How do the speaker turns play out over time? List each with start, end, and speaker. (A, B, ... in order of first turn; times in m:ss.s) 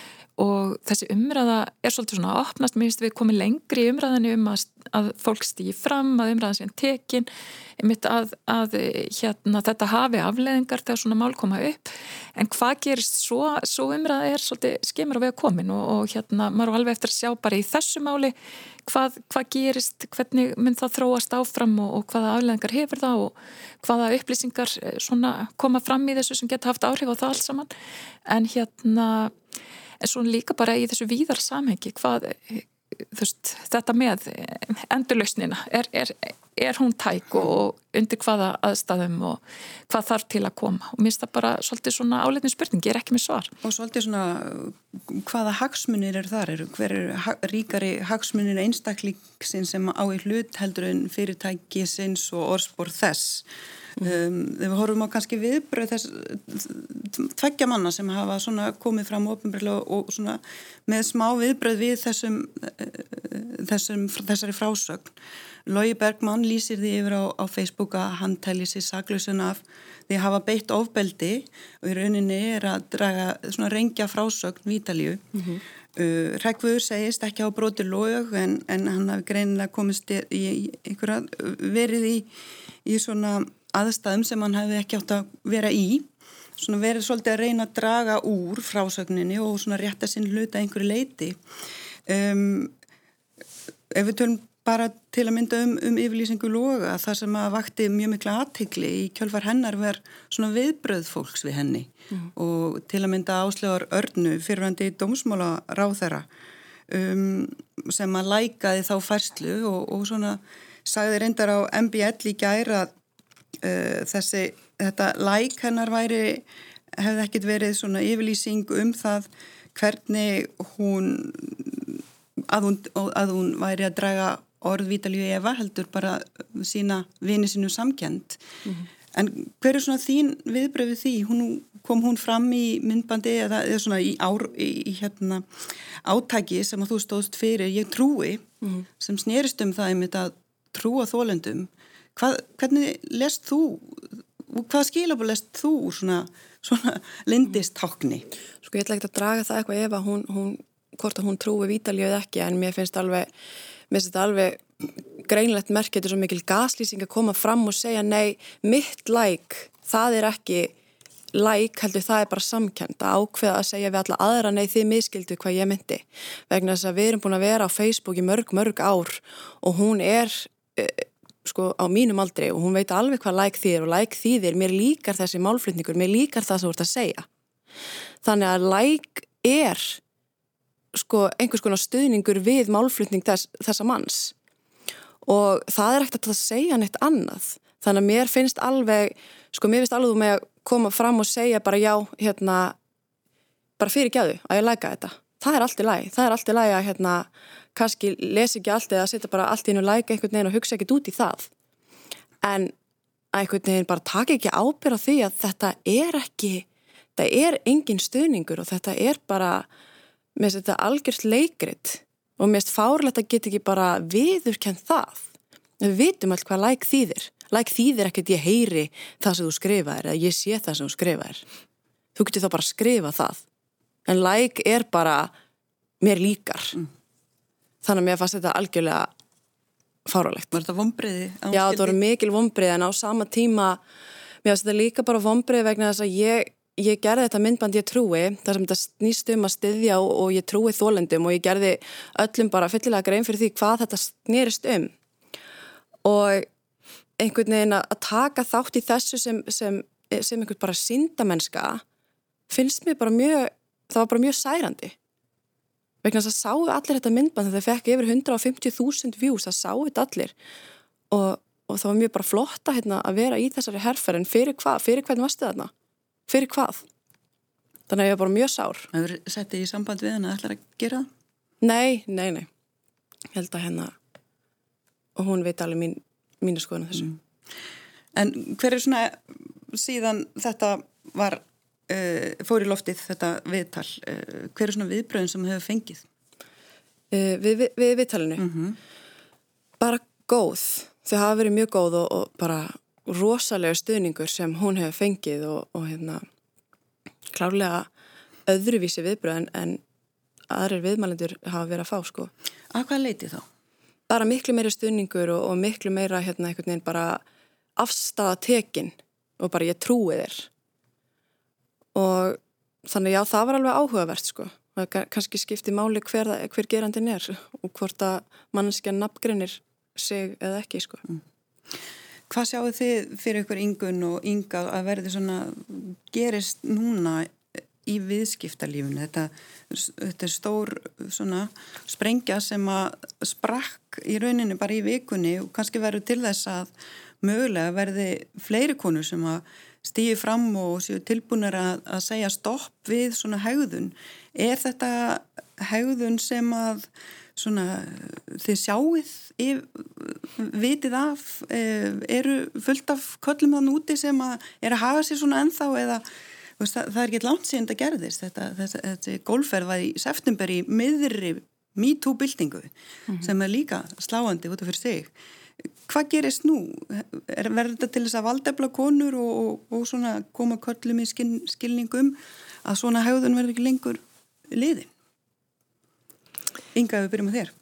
0:00.4-0:18.4 A
0:18.9-0:27.7 A
0:28.3-0:29.3 A
0:30.0-0:43.5 A
0:43.6-0:53.5 B
0:54.0-1:05.1 B
1:05.7-1:15.2 B
1:15.3-1:15.6 C
1:16.0-1:22.3 B
1:22.8-1:31.4 B
1:32.1-1:32.7 B
1:33.9-1:46.3 B
1:46.9-1:52.9 B
1:53.6-1:56.4 B
1:57.0-2:08.4 B
2:09.1-2:15.5 B
2:16.0-2:18.5 B
2:19.0-2:28.3 B
2:28.6-2:33.3 C
2:33.9-2:40.7 C
2:41.3-2:57.3 C
2:58.2-3:00.0 C
3:00.9-3:04.4 C
3:05.2-3:12.8 C
3:13.8-3:21.5 C
3:22.4-3:22.7 C
3:23.3-3:29.7 C
3:30.4-3:35.3 C
3:35.8-3:41.4 C
3:42.2-3:43.4 C
3:44.1-3:45.4 C
3:46.0-3:46.8 C
3:47.8-3:49.1 C
3:50.1-3:50.6 C
3:50.5-3:52.0 B
3:51.5-3:53.8 C
3:54.4-4:04.9 C
4:06.0-4:06.5 C
4:07.2-4:11.8 C
4:12.5-4:15.0 C
4:16.0-4:20.4 C
4:21.1-4:25.7 C
4:26.3-4:26.9 C
4:27.9-4:28.9 C
4:28.9-4:31.1 B
4:31.6-4:32.5 C
4:33.3-4:34.0 C
4:35.2-4:37.1 C
4:38.2-4:46.0 B
4:47.1-4:48.5 C
4:48.4-4:48.8 B
4:49.8-4:56.2 C
4:57.3-4:57.9 C
4:58.5-4:59.8 C
5:00.5-5:02.3 C
5:02.7-5:03.4 B
5:04.1-5:07.2 C
5:07.8-5:10.5 C
5:12.0-5:21.0 C
5:22.3-5:56.0 B
5:56.6-6:05.1 B
6:05.9-6:14.9 B
6:16.8-6:17.5 B